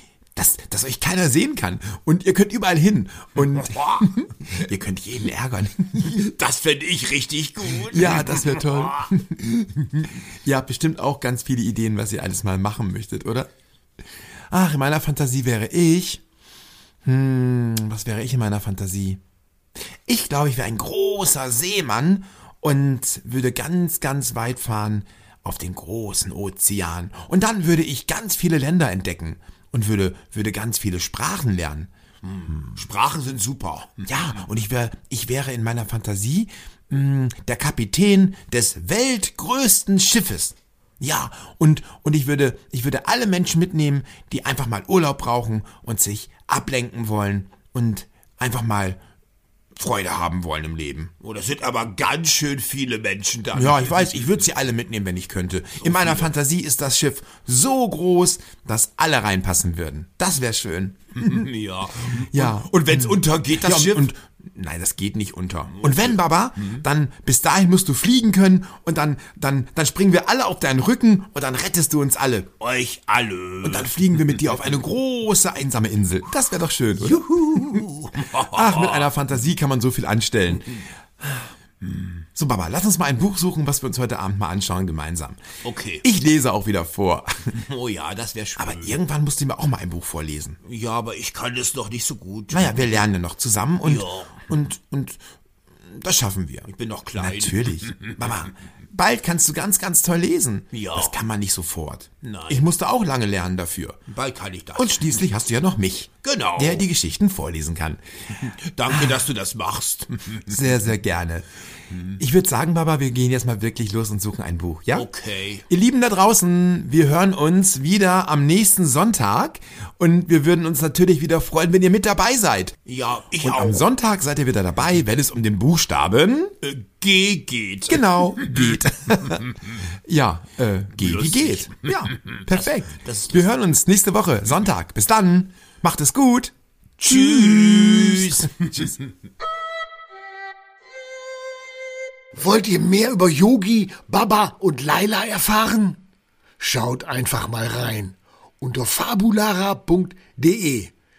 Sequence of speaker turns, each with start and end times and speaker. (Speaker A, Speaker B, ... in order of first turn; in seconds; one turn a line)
Speaker A: 0.3-6.3
Speaker B: 3.6-4.0
Speaker B: 6.2-9.1
Speaker A: 7.8-13.5
Speaker A: 14.5-16.2
Speaker A: 17.0-19.2
Speaker A: 20.1-31.9
Speaker B: 32.2-34.2
Speaker A: 34.0-49.0
Speaker A: 49.7-51.1
Speaker B: 51.2-54.2
Speaker A: 53.5-61.5
Speaker B: 55.8-56.3
Speaker B: 61.2-64.1
Speaker A: 62.3-72.5
Speaker B: 65.7-66.8
Speaker B: 72.6-74.5
Speaker A: 73.6-77.8
Speaker B: 76.9-79.1
Speaker A: 78.5-81.5
Speaker A: 82.2-85.4
Speaker B: 85.6-86.0
Speaker A: 86.0-87.5
Speaker B: 87.5-89.0
Speaker A: 88.6-90.6
Speaker B: 90.6-92.8
Speaker A: 92.5-95.2
Speaker B: 93.8-94.4
Speaker A: 95.9-104.1
Speaker B: 96.7-98.3
Speaker B: 100.7-101.1
Speaker B: 102.2-102.7
Speaker B: 104.1-105.0
Speaker A: 104.7-108.0
Speaker B: 106.2-106.9
Speaker B: 108.4-110.6
Speaker A: 110.4-111.5
Speaker A: 112.2-115.1
Speaker B: 114.9-115.6
Speaker A: 115.7-122.8
Speaker B: 122.8-123.8
Speaker A: 123.4-126.5
Speaker B: 126.6-129.6
Speaker A: 127.9-129.4
Speaker A: 130.1-138.5
Speaker B: 131.0-133.5
Speaker B: 137.0-139.0
Speaker C: 142.3-146.0
Speaker C: 146.6-150.9